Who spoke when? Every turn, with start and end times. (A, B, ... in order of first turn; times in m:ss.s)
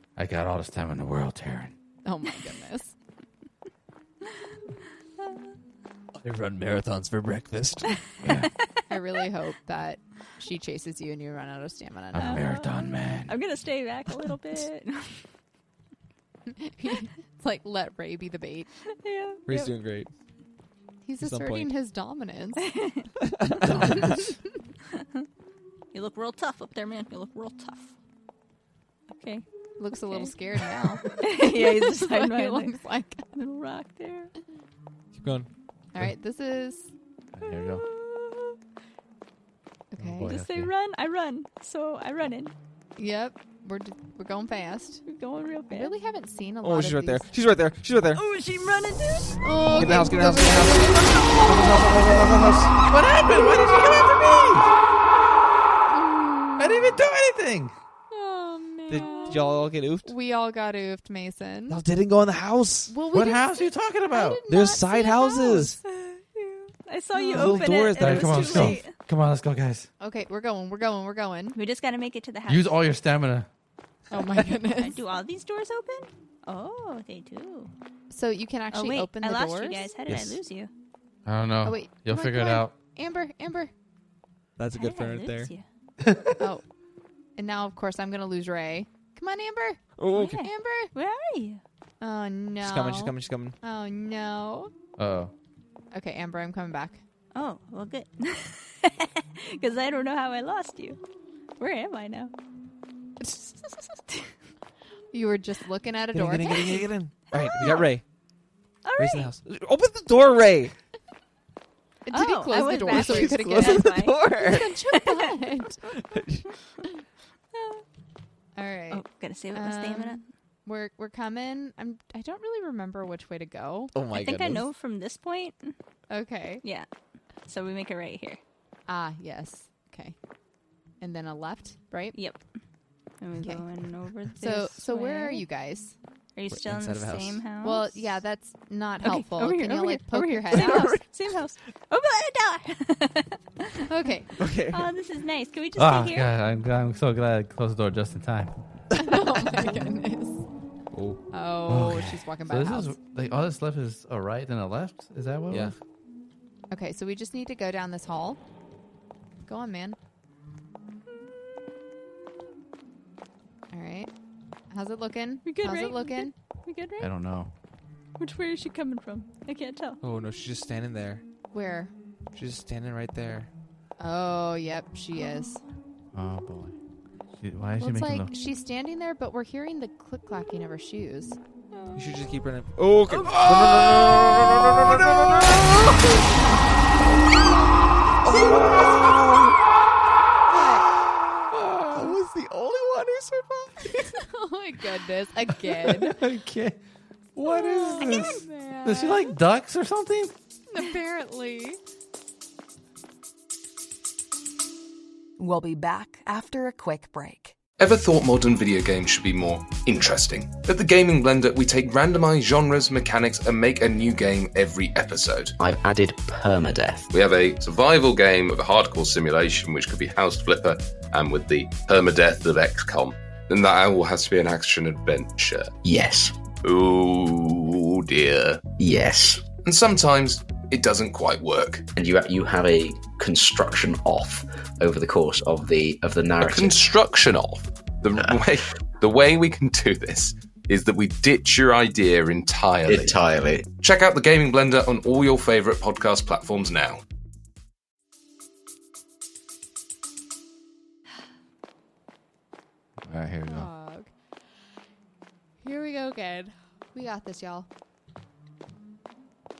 0:00.2-0:01.7 A
0:02.0-0:02.9 B
0:05.2-0:05.5 C
0:06.2-0:08.0 D
0:07.9-0:09.2 C
0:08.2-0:08.5 A
0:08.9-0:12.5 B
0:12.1-0:13.4 A
0:12.2-0:15.3 C
0:16.5-0:18.7 B
0:18.9-0:19.7 C
0:19.5-0:20.1 D
0:21.0-0:22.7 B
0:21.2-0:21.7 D
0:22.6-0:23.1 C
0:23.2-0:24.3 D
0:23.6-0:24.2 A
0:24.9-0:25.2 C
0:25.9-0:27.9 C
0:29.1-0:29.4 C
0:29.8-0:33.2 B
0:30.1-0:30.3 C
0:31.0-0:32.8 C
0:33.3-0:34.3 C
0:35.1-0:35.5 D
0:35.9-0:36.9 B
0:37.3-0:37.8 A
0:37.4-0:38.6 C
0:39.9-0:40.3 B
0:40.0-0:40.7 A
0:40.2-0:42.5 C
0:43.0-0:45.0 B
0:45.0-0:45.9 C
0:45.7-0:47.3 B
0:46.6-0:48.2 D
0:48.1-0:49.4 C
0:49.4-0:51.4 B
0:49.7-0:52.7 D
0:52.9-0:54.7 A
0:55.9-0:57.0 B
0:56.6-0:57.7 A
0:58.1-1:01.8 B
0:58.9-1:00.1 D
1:01.7-1:02.9 D
1:02.9-1:05.8 B
1:03.1-1:04.4 A
1:04.5-1:05.8 D
1:05.8-1:08.9 C
1:07.1-1:07.7 B
1:07.3-1:08.8 D
1:08.0-1:09.9 A
1:10.0-1:11.6 B
1:11.5-1:12.8 C
1:12.5-1:13.5 A
1:14.1-1:15.0 B
1:14.4-1:17.7 C
1:18.1-1:19.9 B
1:18.7-1:20.7 C
1:20.1-1:20.4 A
1:21.2-1:22.7 A
1:21.6-1:23.7 B
1:24.6-1:25.5 D
1:24.7-1:25.6 C
1:26.0-1:26.4 A
1:27.4-1:30.9 B
1:30.0-1:30.4 D
1:30.1-1:31.6 C
1:32.0-1:34.7 B
1:32.6-1:33.6 D
1:35.0-1:35.3 A
1:35.9-1:37.0 B
1:37.3-1:41.0 C
1:41.6-1:42.3 C
1:43.2-1:43.6 B
1:45.1-1:46.9 B
1:46.1-1:48.0 D
1:47.3-1:47.9 C
1:48.8-1:49.3 C
1:49.0-1:50.7 D
1:52.0-1:55.8 B
1:52.1-1:55.3 C
1:52.9-1:54.7 D
1:55.9-1:56.5 D
1:57.5-1:57.8 C
1:58.6-2:03.9 B
1:58.9-2:00.2 C
2:03.9-2:04.7 D
2:04.1-2:05.8 C
2:06.1-2:06.6 B
2:07.5-2:08.4 C
2:08.9-2:10.2 B
2:11.0-2:12.2 B
2:12.1-2:12.4 C
2:13.2-2:15.4 C
2:13.4-2:13.6 B
2:14.3-2:16.0 B
2:16.3-2:18.0 C
2:16.5-2:17.4 D
2:17.6-2:21.0 B
2:19.0-2:23.9 C
2:20.5-2:21.4 D
2:23.8-2:24.3 B
2:24.4-2:24.9 D
2:24.7-2:26.3 C
2:25.7-2:28.5 A
2:28.9-2:30.4 B
2:30.9-2:31.2 D
2:31.3-2:33.0 B
2:31.7-2:35.8 A
2:35.5-2:35.7 D
2:36.7-2:38.4 B
2:39.4-2:40.0 B
2:43.7-2:44.1 B
2:44.7-2:46.3 B
2:45.4-2:47.1 C
2:47.0-2:47.5 A
2:48.2-2:50.0 C
2:50.0-2:51.2 D
2:51.5-2:51.9 B
2:52.3-2:53.5 D
2:54.0-2:55.6 B
2:55.2-2:55.5 C
2:56.1-2:56.7 A
2:57.4-2:58.3 A
2:57.8-3:01.4 B
3:01.7-3:02.0 C
3:02.0-3:06.2 D
3:03.2-3:06.0 A
3:08.2-3:09.6 D
3:08.3-3:09.0 C
3:10.5-3:10.9 B
3:10.5-3:14.2 D
3:11.5-3:12.2 A
3:14.1-3:16.2 B
3:15.7-3:16.8 A
3:17.4-3:20.3 A
3:17.4-3:19.4 B
3:18.0-3:18.3 C
3:20.7-3:21.8 B
3:25.4-3:27.6 E
3:27.8-3:35.5 F
3:35.6-3:37.1 G
3:37.1-3:45.7 F
3:45.8-3:46.4 G
3:46.6-3:48.6 F
3:48.8-3:49.4 G
3:49.5-3:51.9 F
3:51.9-3:56.8 G
3:56.4-4:07.0 F
4:02.8-4:03.7 G
4:13.0-4:13.7 A
4:13.4-4:14.1 B
4:15.6-4:17.7 B